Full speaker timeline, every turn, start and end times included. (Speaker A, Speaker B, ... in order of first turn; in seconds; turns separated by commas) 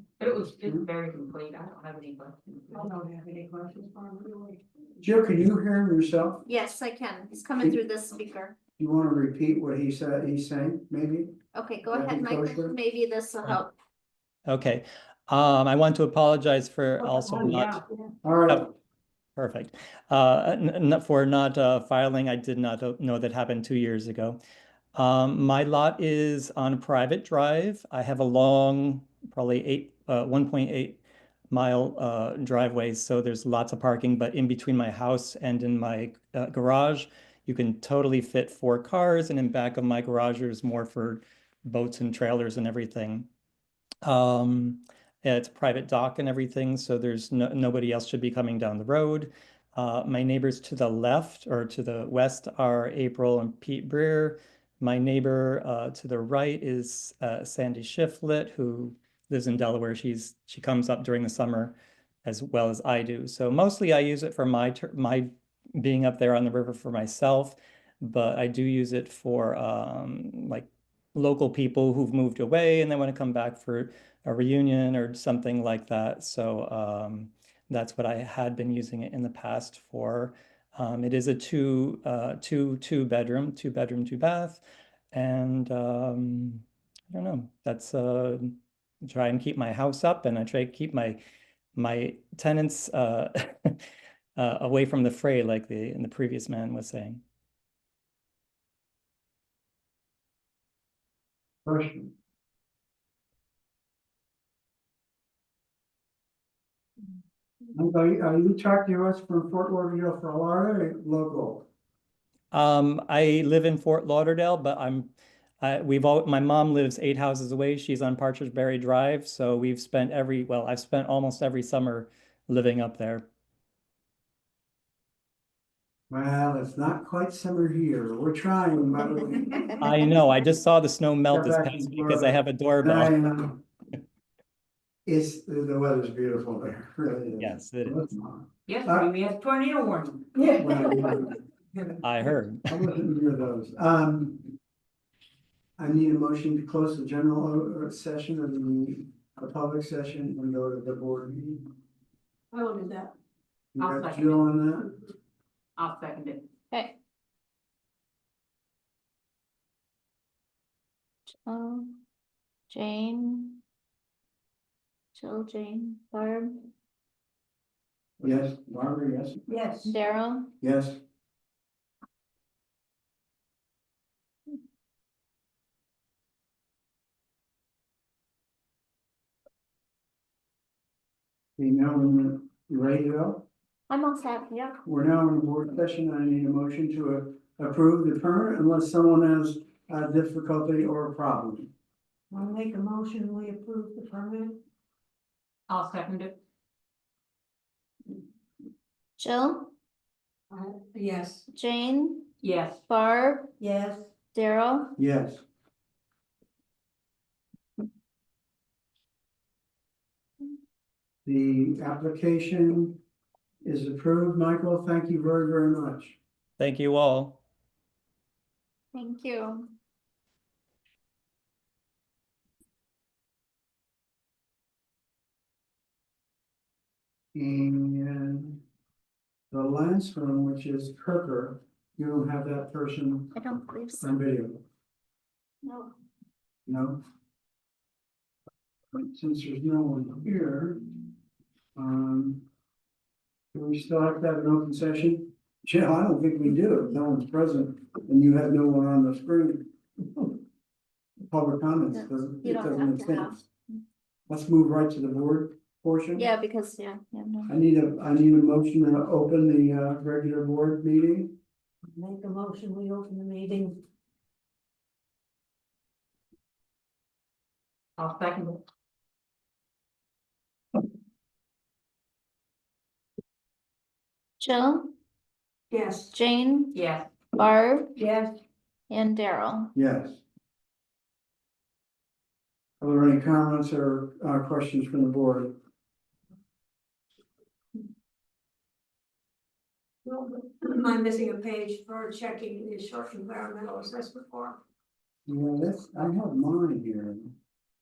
Speaker A: 0.2-2.8, Speaker B: 0.6-0.9, Speaker C: 2.7-4.6, Speaker B: 5.0-6.4, Speaker D: 6.5-8.6, Speaker B: 8.8-11.4, Speaker D: 11.5-13.7, Speaker B: 11.9-12.7, Speaker E: 14.5-17.8, Speaker C: 17.0-17.8, Speaker B: 18.2-18.7, Speaker E: 19.4-24.4, Speaker E: 24.9-31.0, Speaker E: 31.5-43.3, Speaker E: 44.0-91.2, Speaker E: 91.7-93.8, Speaker E: 94.4-97.2, Speaker B: 101.6-102.1, Speaker B: 107.7-111.7, Speaker E: 112.5-123.3, Speaker B: 126.1-129.8, Speaker E: 129.8-133.2, Speaker B: 131.3-133.6, Speaker B: 135.0-139.1, Speaker E: 137.4-138.0, Speaker A: 138.7-140.3, Speaker B: 140.6-141.4, Speaker E: 142.0-142.9, Speaker B: 142.7-144.4, Speaker B: 145.8-151.6, Speaker C: 152.5-153.1, Speaker B: 153.7-154.9, Speaker A: 153.8-154.4, Speaker A: 155.8-156.5, Speaker D: 156.7-157.0, Speaker D: 161.4-162.0, Speaker D: 162.7-163.6, Speaker D: 165.1-166.7, Speaker B: 168.2-169.4, Speaker C: 169.5-169.9, Speaker D: 169.8-170.5, Speaker B: 170.6-171.0, Speaker B: 181.6-183.4, Speaker D: 183.9-184.8, Speaker B: 184.8-191.7, Speaker C: 192.3-194.6, Speaker A: 195.7-196.4, Speaker D: 199.2-199.7, Speaker C: 200.5-201.4, Speaker D: 201.5-202.3, Speaker A: 202.4-202.8, Speaker D: 202.9-203.5, Speaker C: 203.6-204.1, Speaker D: 204.3-204.9, Speaker B: 204.9-205.4, Speaker B: 211.2-213.0, Speaker B: 213.6-216.2, Speaker E: 216.6-217.4, Speaker D: 218.9-219.7, Speaker B: 227.3-228.6, Speaker B: 229.5-233.3, Speaker D: 233.3-234.2, Speaker B: 234.0-234.6, Speaker D: 235.6-235.9, Speaker B: 236.7-237.0, Speaker B: 238.9-240.8, Speaker B: 241.8-242.4, Speaker B: 243.5-249.7, Speaker B: 251.3-253.4, Speaker D: 251.9-253.8, Speaker B: 254.3-256.2, Speaker D: 256.2-257.5, Speaker B: 257.5-261.3, Speaker C: 261.9-263.8, Speaker A: 268.0-268.6, Speaker D: 274.4-274.9, Speaker C: 275.7-276.1, Speaker D: 276.1-276.7, Speaker A: 276.7-277.1, Speaker D: 277.3-277.9, Speaker C: 277.9-278.4, Speaker D: 278.9-279.7, Speaker B: 279.7-280.2, Speaker B: 282.8-285.5, Speaker C: 290.0-294.6, Speaker B: 295.3-297.3